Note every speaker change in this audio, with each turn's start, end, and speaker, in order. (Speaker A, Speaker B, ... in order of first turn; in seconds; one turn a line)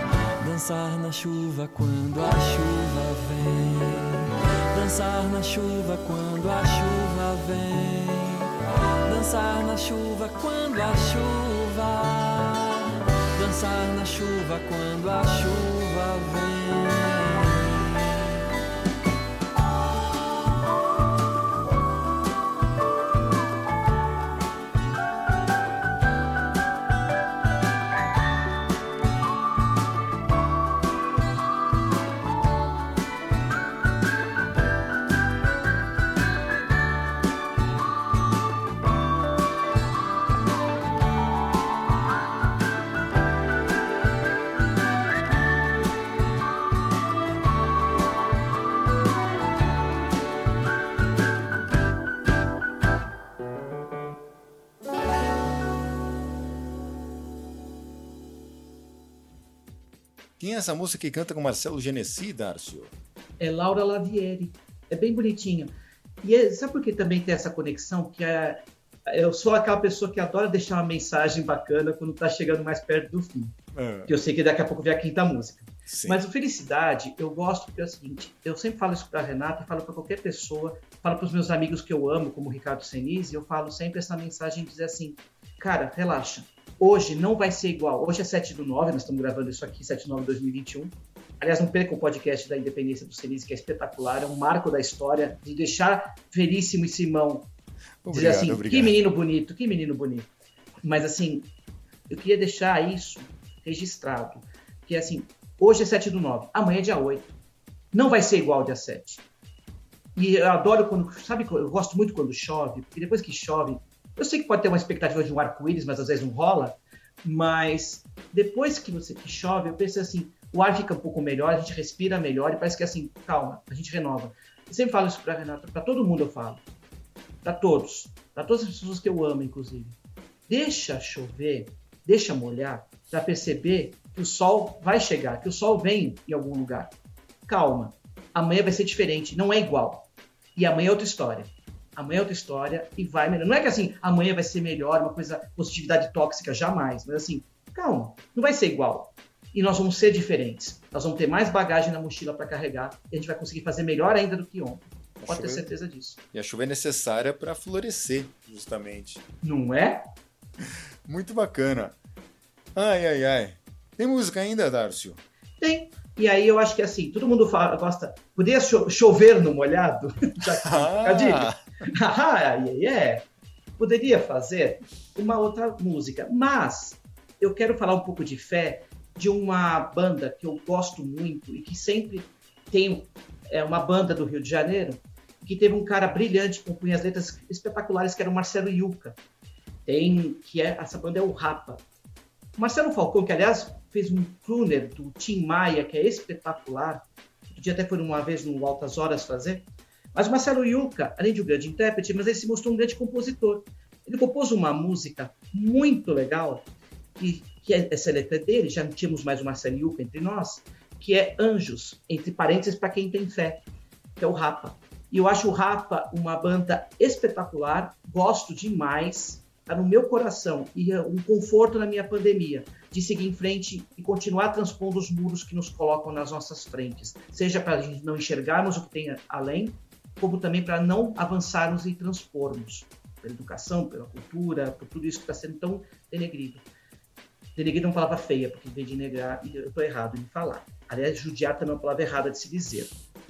Speaker A: 0.4-18.4
Speaker B: 60.4-62.9
Speaker C: 63.4-73.5
Speaker B: 73.7-74.1
Speaker C: 74.1-97.5
Speaker B: 75.9-76.2
Speaker B: 98.0-98.9
Speaker C: 98.1-100.3
Speaker C: 100.8-101.5
Speaker C: 102.1-107.3
Speaker C: 107.9-109.2
Speaker C: 110.1-126.6
Speaker C: 127.4-129.9
Speaker C: 130.5-136.9
Speaker C: 137.4-156.2
Speaker B: 155.2-155.7
Speaker B: 156.3-159.2
Speaker C: 159.4-160.1
Speaker B: 161.1-161.9
Speaker B: 162.7-165.2
Speaker C: 165.6-173.2
Speaker B: 170.6-171.6
Speaker C: 173.8-189.2
Speaker C: 189.8-191.8
Speaker C: 192.6-213.6
Speaker C: 214.2-236.6
Speaker C: 237.6-242.9